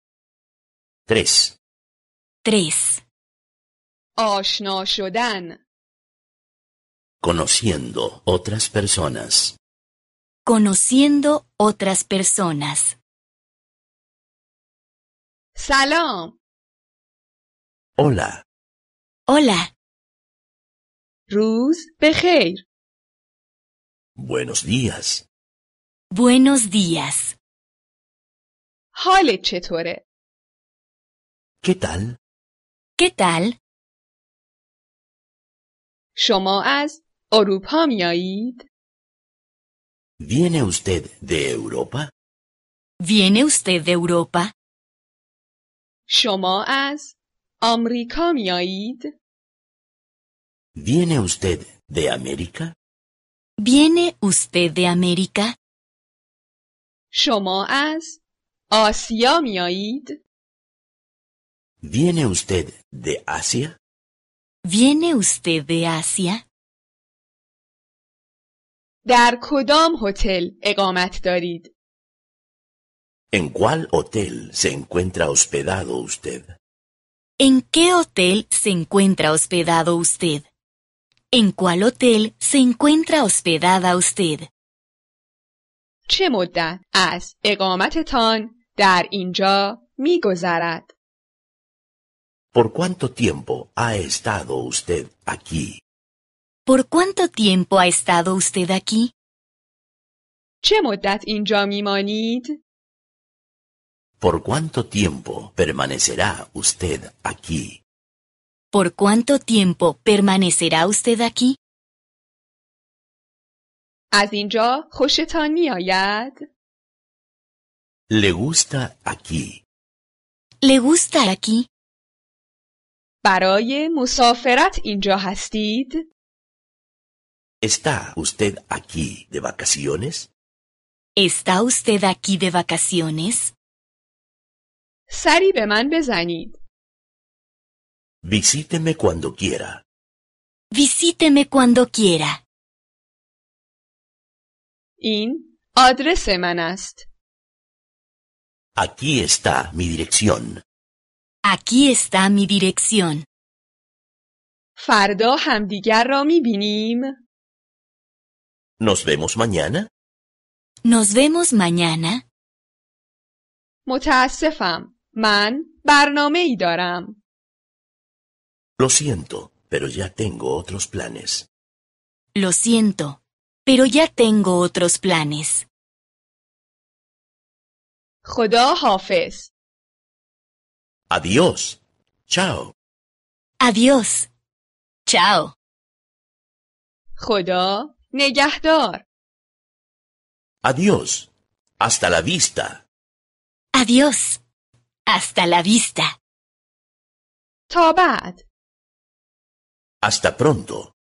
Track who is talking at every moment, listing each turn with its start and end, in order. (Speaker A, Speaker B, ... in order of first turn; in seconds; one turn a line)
Speaker A: 1.1-1.6
Speaker B: 2.4-3.0
Speaker C: 4.2-5.6
Speaker A: 7.2-9.6
Speaker B: 10.4-12.9
Speaker C: 15.6-16.4
Speaker A: 18.0-18.4
Speaker B: 19.3-19.7
Speaker C: 21.3-22.6
Speaker A: 24.2-25.2
Speaker B: 26.1-27.3
Speaker C: 28.9-30.0
Speaker A: 31.6-32.1
Speaker B: 33.0-33.6
Speaker C: 36.1-38.6
Speaker A: 40.2-42.1
Speaker B: 43.0-44.5
Speaker C: 46.1-49.1
Speaker A: 50.8-52.7
Speaker B: 53.6-55.5
Speaker C: 57.1-58.2
Speaker C: 58.7-60.2
Speaker A: 61.8-63.8
Speaker B: 64.6-66.4
Speaker C: 69.0-71.7
Speaker A: 73.3-76.5
Speaker B: 77.4-80.5
Speaker B: 81.3-84.5
Speaker C: 86.1-90.9
Speaker A: 92.5-95.8
Speaker B: 96.7-99.1
Speaker C: 100.6-102.6
Speaker A: 104.2-107.8
Speaker B: 108.7-111.6
Speaker C: 114.1-116.4
Speaker A: 118.1-119.6
Speaker B: 120.6-121.7
Speaker C: 123.2-126.0
Speaker A: 127.6-130.3
Speaker B: 131.2-133.5
Speaker C: 135.1-136.6
Speaker A: 138.2-139.8
Speaker B: 140.7-142.4
Speaker C: 145.0-147.0
Speaker A: 148.8-150.6
Speaker B: 151.4-153.2
Speaker C: 154.8-157.2
Speaker A: 158.8-159.9
Speaker B: 160.8-162.2
Speaker C: 163.9-167.2
Speaker A: 168.8-171.5
Speaker B: 172.3-175.7
Speaker C: 178.2-179.5
Speaker A: 181.1-182.7
Speaker B: 183.6-184.3
Speaker B: 185.1-185.5
Speaker C: 187.2-189.0
Speaker A: 190.6-192.8
Speaker B: 193.7-194.4
Speaker B: 195.1-196.1
Speaker C: 197.7-198.4
Speaker A: 200.0-200.9